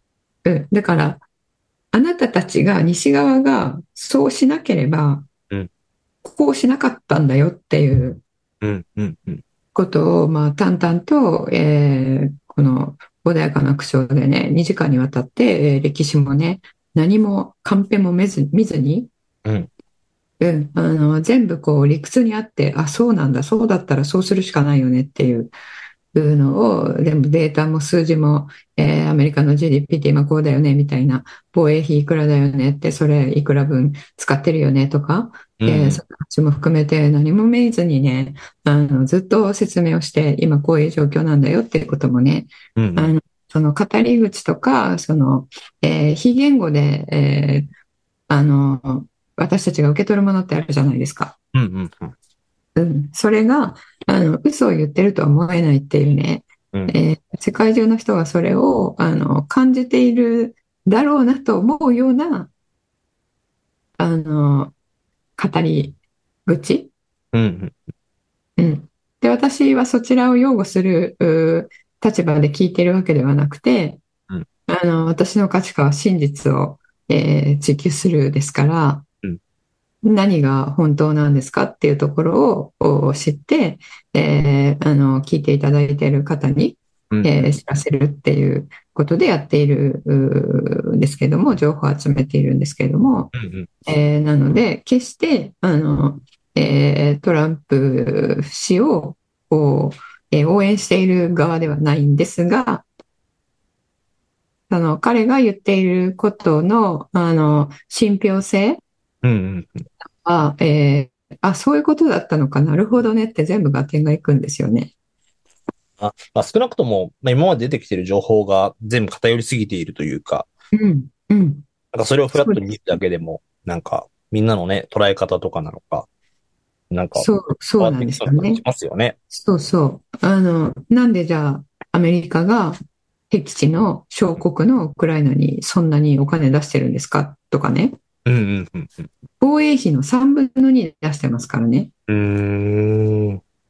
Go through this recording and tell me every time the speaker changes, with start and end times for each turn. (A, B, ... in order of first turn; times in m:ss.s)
0:00.4-0:01.2 A
0:01.9-0:05.3 A
0:06.2-0:08.2 A
0:08.6-0:09.4 B
0:09.7-0:19.1 A
0:20.4-0:25.5 A
0:26.1-0:47.7 A
0:35.6-0:36.0 B
0:42.8-0:43.1 B
0:48.3-0:51.4 A
0:51.5-0:52.2 B
0:52.8-1:02.5 A
1:04.0-1:04.7 A
1:05.4-1:06.9 A
1:07.3-1:07.8 B
1:08.6-1:14.0 A
1:14.7-1:19.0 A
1:20.0-1:33.3 A
1:27.1-1:27.5 B
1:33.4-1:33.7 B
1:33.8-1:42.9 A
1:44.7-1:48.8 A
1:49.2-1:49.9 B
1:50.2-1:54.9 A
1:56.0-2:00.5 B
2:00.7-2:01.7 A
2:01.9-2:06.1 B
2:02.4-2:02.6 A
2:06.9-2:09.2 B
2:07.2-2:08.6 A
2:09.3-2:12.8 A
2:13.3-2:18.0 A
2:18.2-2:19.1 B
2:19.4-2:21.9 A
2:22.1-2:23.4 B